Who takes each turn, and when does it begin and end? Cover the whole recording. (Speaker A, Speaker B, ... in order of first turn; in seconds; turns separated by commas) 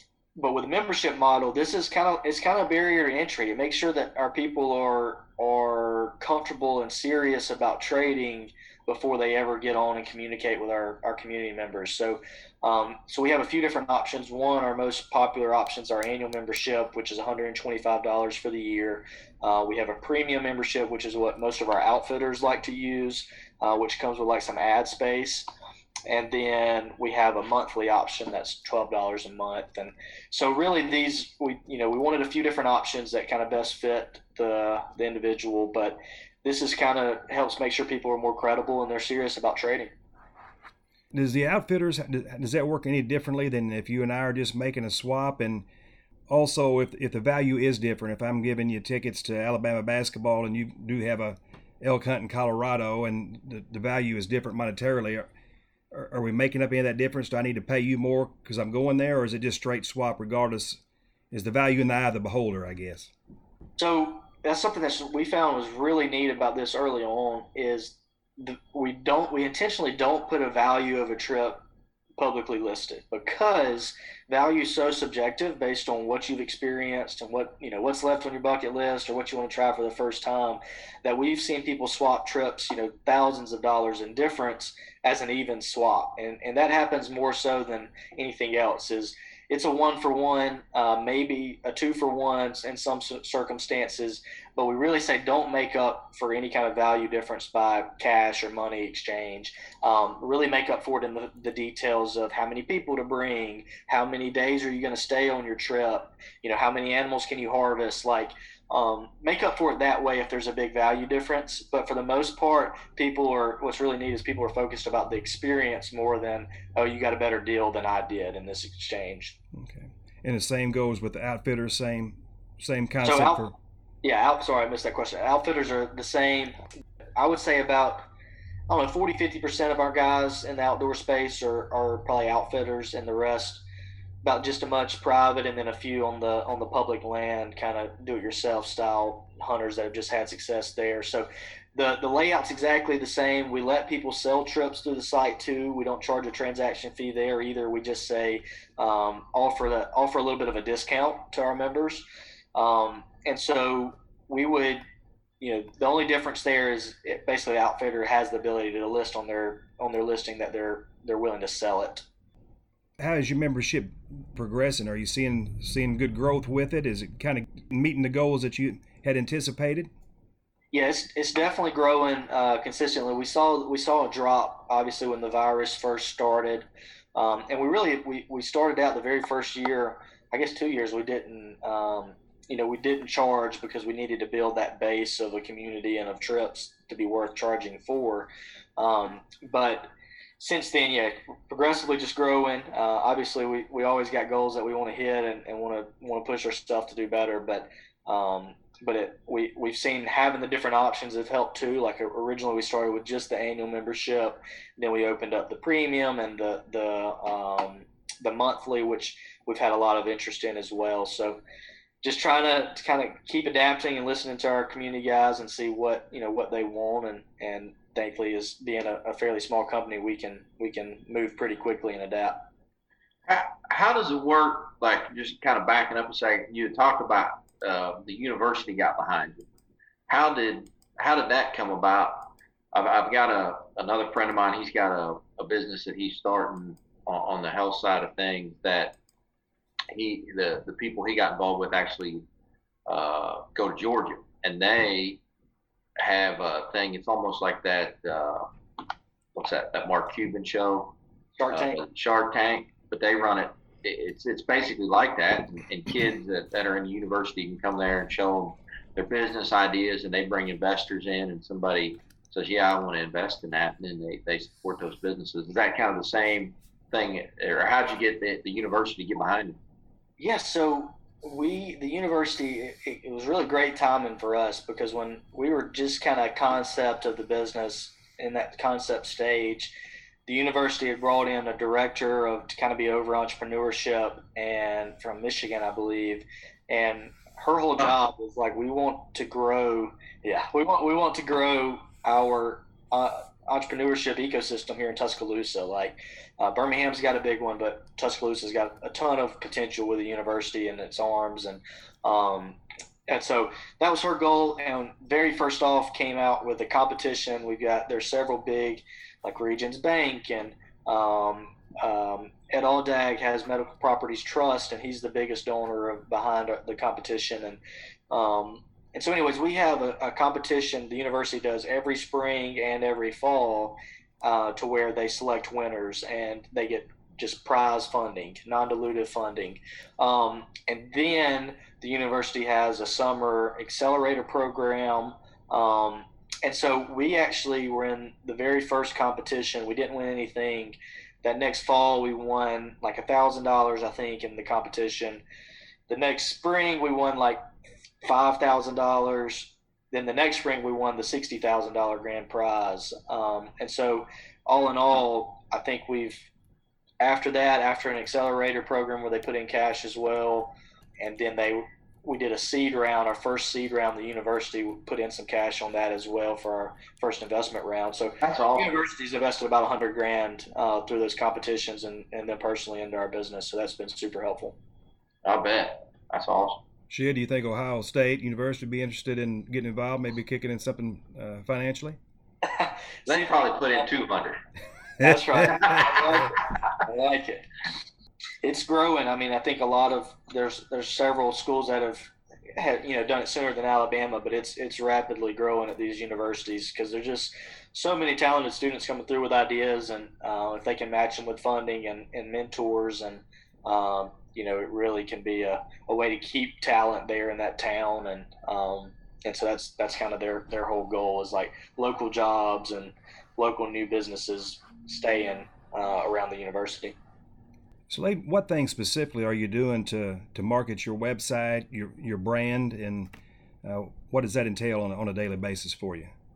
Speaker A: 0.4-25.5, Speaker A: 26.1-39.9, Speaker B: 41.1-45.6, Speaker B: 46.3-55.3, Speaker B: 55.9-60.8, Speaker B: 61.3-63.1, Speaker A: 63.8-71.6, Speaker A: 72.2-119.4, Speaker B: 119.5-123.5, Speaker A: 123.0-123.5, Speaker A: 124.0-126.6, Speaker A: 127.2-128.1, Speaker A: 128.7-133.6, Speaker A: 134.2-152.0, Speaker A: 152.6-154.8, Speaker A: 155.4-162.1, Speaker B: 163.0-169.9, Speaker A: 170.7-211.4, Speaker A: 212.0-222.4, Speaker C: 223.3-229.4, Speaker C: 230.1-239.0, Speaker C: 239.9-242.2, Speaker C: 242.9-245.2, Speaker C: 246.0-248.5, Speaker C: 249.3-250.9, Speaker A: 251.4-251.8, Speaker C: 251.5-269.6, Speaker A: 270.2-279.7, Speaker A: 280.3-317.6, Speaker A: 318.1-345.2, Speaker A: 345.9-347.4, Speaker A: 348.0-356.3, Speaker A: 357.0-374.6, Speaker C: 368.2-368.8, Speaker C: 375.2-376.6, Speaker B: 376.9-382.0, Speaker A: 382.6-383.5, Speaker C: 383.1-384.4, Speaker B: 385.0-385.5, Speaker A: 385.0-387.5, Speaker C: 385.4-385.9, Speaker A: 388.4-417.0, Speaker B: 417.9-426.1